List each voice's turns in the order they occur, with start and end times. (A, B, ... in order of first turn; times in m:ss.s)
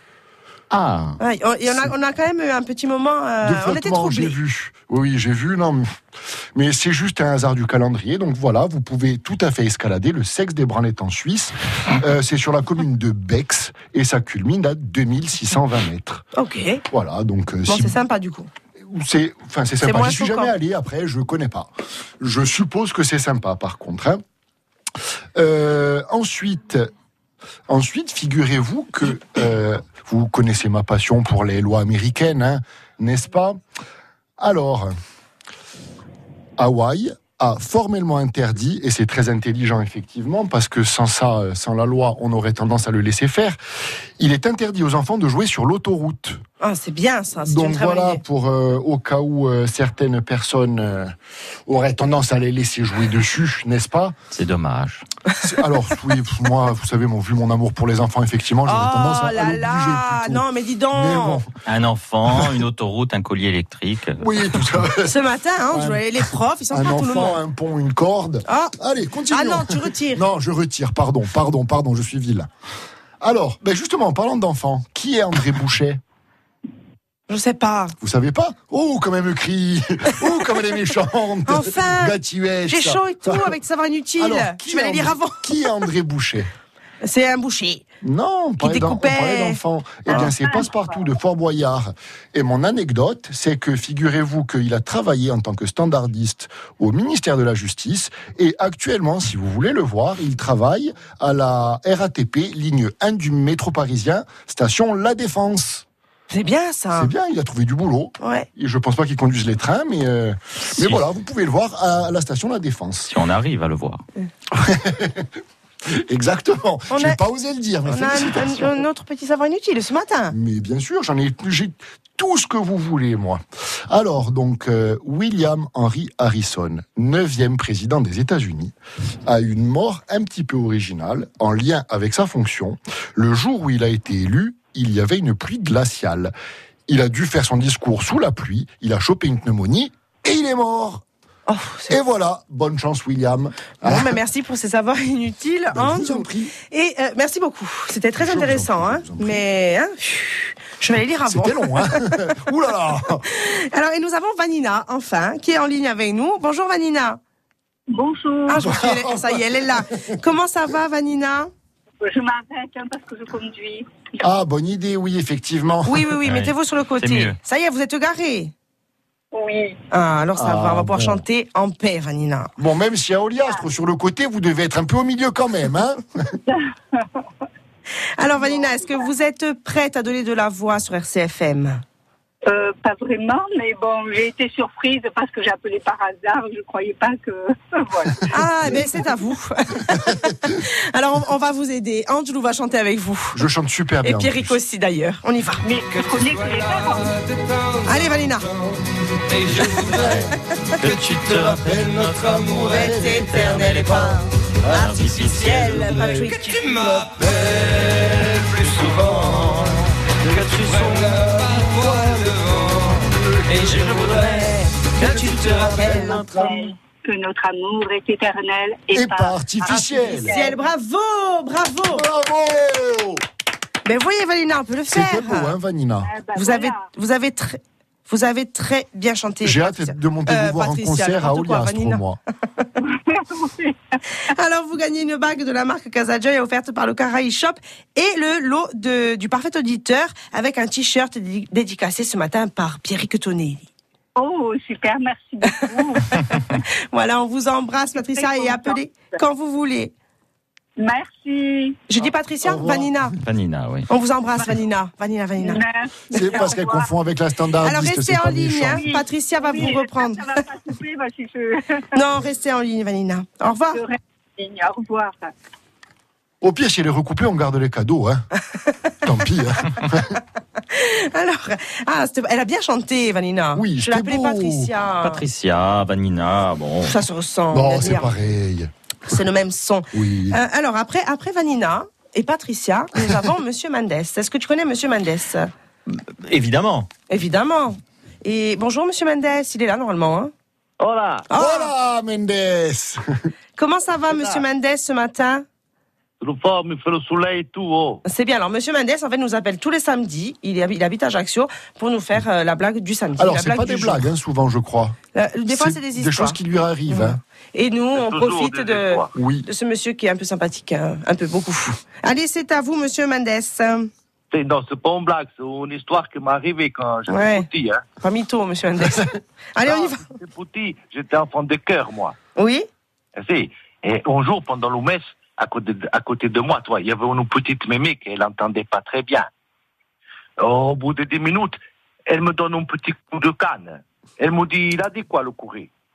0:00.7-0:01.2 A
0:01.2-0:04.4 B
0:03.4-0:05.9 C
0:06.5-0:16.2 C
0:16.3-0:16.8 B
0:16.9-0:18.0 C
0:17.7-0:18.5 B
0:18.8-0:24.2 C
0:19.8-0:20.5 B
0:25.3-0:26.9 C
0:27.7-0:33.6 C
0:34.4-0:34.9 C
0:36.6-0:43.6 C
0:44.2-0:46.4 C
0:46.6-0:48.2 B
0:47.4-0:51.1 C
0:51.6-0:54.2 C
0:54.3-0:55.0 A
0:55.4-1:01.4 C
0:58.6-1:01.4 B
1:01.6-1:04.8 A
1:04.2-1:05.2 C
1:05.0-1:07.4 B
1:05.7-1:12.5 C
1:08.4-1:08.7 B
1:09.3-1:10.2 B
1:13.2-1:16.0 C
1:17.3-1:17.9 B
1:18.0-1:23.6 C
1:21.5-1:22.1 B
1:22.7-1:25.8 B
1:24.2-1:26.5 C
1:27.0-1:27.8 B
1:28.0-1:45.8 C
1:28.6-1:30.3 B
1:46.3-1:47.1 B
1:46.9-1:53.1 C
1:48.2-1:48.5 B
1:50.7-1:51.0 A
1:53.1-1:54.0 A
1:54.5-1:55.3 C
1:55.9-1:58.8 C
1:56.9-1:57.2 B
1:57.9-2:00.3 B
2:00.3-2:08.7 C
2:09.2-2:16.3 C
2:16.9-2:21.0 C
2:21.5-2:21.9 B
2:21.9-2:24.2 C
2:23.8-2:32.0 B
2:25.7-2:26.5 C
2:28.2-2:29.4 C
2:31.3-2:33.2 C
2:33.3-2:37.2 B
2:37.9-2:38.7 D
2:38.5-2:41.5 B
2:38.5-2:39.4 C
2:42.0-2:44.2 D
2:44.2-2:46.1 C
2:45.8-2:48.5 B
2:46.2-2:47.4 A
2:49.3-2:49.8 D
2:49.9-2:52.5 B
2:50.4-2:51.2 C
2:52.6-2:56.3 C
2:58.2-3:01.8 B
3:02.5-3:08.3 D
3:08.3-3:13.4 B
3:13.3-3:14.6 C
3:14.0-3:15.6 B
3:15.6-3:17.1 D
3:15.9-3:20.3 E
3:17.9-3:18.4 B
3:19.5-3:26.2 A
3:21.0-3:22.7 E
3:22.5-3:27.1 B
3:26.1-3:36.6 E
3:28.6-3:31.2 A
3:33.8-3:34.3 A
3:33.8-3:36.6 B
3:35.0-3:36.5 A
3:36.4-3:40.6 D
3:38.9-3:40.4 C
3:40.1-3:42.0 B
3:41.9-3:43.2 C
3:43.8-3:45.5 B
3:44.9-3:46.1 C
3:46.0-3:46.9 D
3:46.3-3:52.0 B
3:49.4-3:52.2 C
3:52.9-3:53.7 D
3:54.3-4:03.7 B
4:04.2-4:06.0 D
4:06.9-4:09.9 B
4:08.1-4:09.2 D
4:10.8-4:11.8 D
4:11.9-4:13.2 B
4:12.4-4:13.0 C
4:13.2-4:13.9 A
4:13.9-4:15.6 B
4:15.4-4:16.9 D
4:16.1-4:18.9 C
4:17.6-4:20.3 B
4:18.7-4:21.8 D
4:21.9-4:23.8 B
4:23.7-4:25.3 D
4:26.4-4:28.2 C
4:29.0-4:30.2 C
4:30.7-4:35.2 B
4:33.5-4:34.7 C
4:35.0-4:37.0 A
4:36.8-4:38.1 B
4:37.5-4:38.7 C
4:39.1-4:45.5 B
4:39.9-4:40.4 C
4:45.9-4:46.9 A
4:47.1-4:50.3 B
4:50.8-4:51.2 F
4:51.3-4:51.7 B
4:51.3-4:53.2 C
4:53.6-4:55.4 B
4:56.2-4:58.0 F
4:58.0-5:04.0 B
5:03.2-5:07.2 C
5:05.1-5:13.9 B
5:07.9-5:09.1 F
5:09.1-5:09.5 C
5:14.3-5:17.8 F
5:17.1-5:17.5 B
5:18.0-5:20.0 B
5:19.6-5:22.1 F
5:22.4-5:22.7 B
5:23.2-5:29.3 F
5:30.4-5:31.6 F
5:32.1-5:35.7 F